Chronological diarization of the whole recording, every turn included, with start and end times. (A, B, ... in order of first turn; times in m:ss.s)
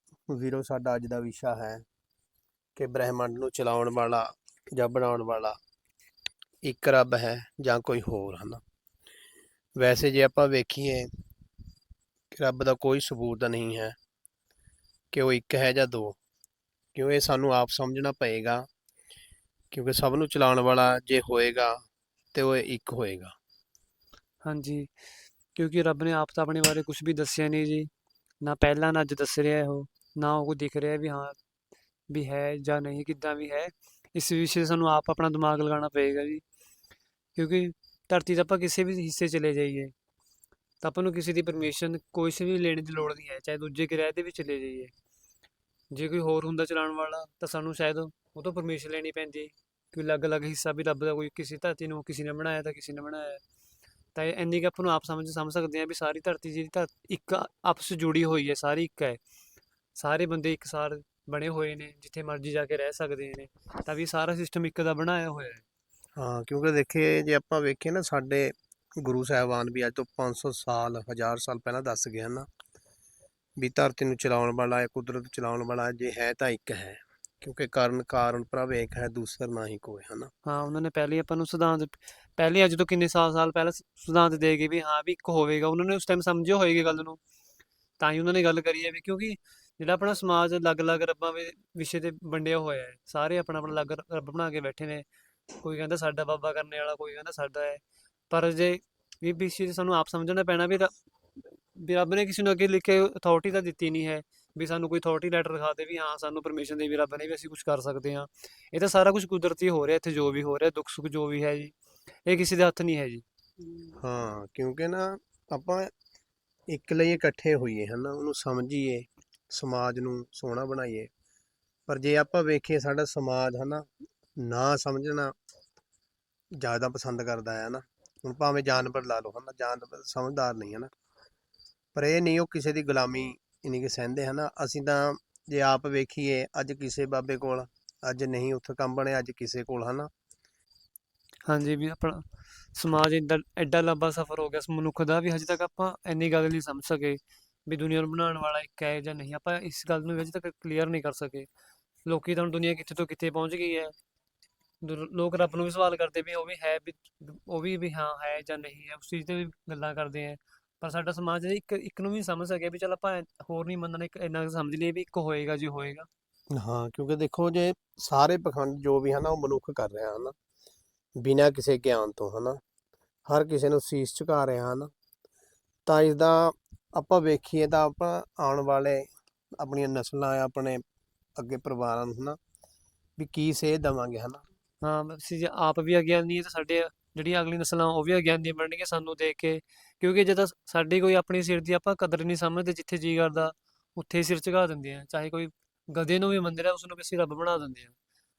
0:00.3-0:01.8 A
0:02.8-0:05.6 A
0:06.6-0:08.6 A
0:09.8-0:11.1 A
0:12.3-0:14.0 A
0:15.1-0:16.2 A
0:17.0-0:18.7 A
0:19.7-0:21.8 A
0:22.3-0:23.3 A
0:24.4-0:24.9 B
0:25.6-0:27.9 B
0:28.4-0:31.4 B
0:32.1-0:36.4 B
0:37.4-0:39.9 B
0:40.8-0:44.9 B
0:45.9-0:53.4 B
0:54.2-0:59.2 B
1:00.0-1:05.6 B
1:06.2-1:12.5 A
1:13.6-1:20.3 A
1:20.4-1:27.2 B
1:28.0-1:40.9 B
1:41.7-1:51.7 B
1:52.3-1:53.2 B
1:54.0-1:55.9 A
1:56.7-2:01.1 A
2:01.9-2:03.8 A
2:04.4-2:05.3 A
2:06.6-2:10.9 A
2:12.0-2:20.1 A
2:21.5-2:31.5 B
2:32.1-2:33.9 B
2:34.8-2:46.1 B
2:46.5-2:50.3 A
2:51.2-2:52.6 A
2:53.3-2:54.9 A
2:55.9-2:59.0 A
2:59.6-3:00.8 A
3:01.4-3:02.4 A
3:03.2-3:04.4 A
3:04.8-3:17.9 B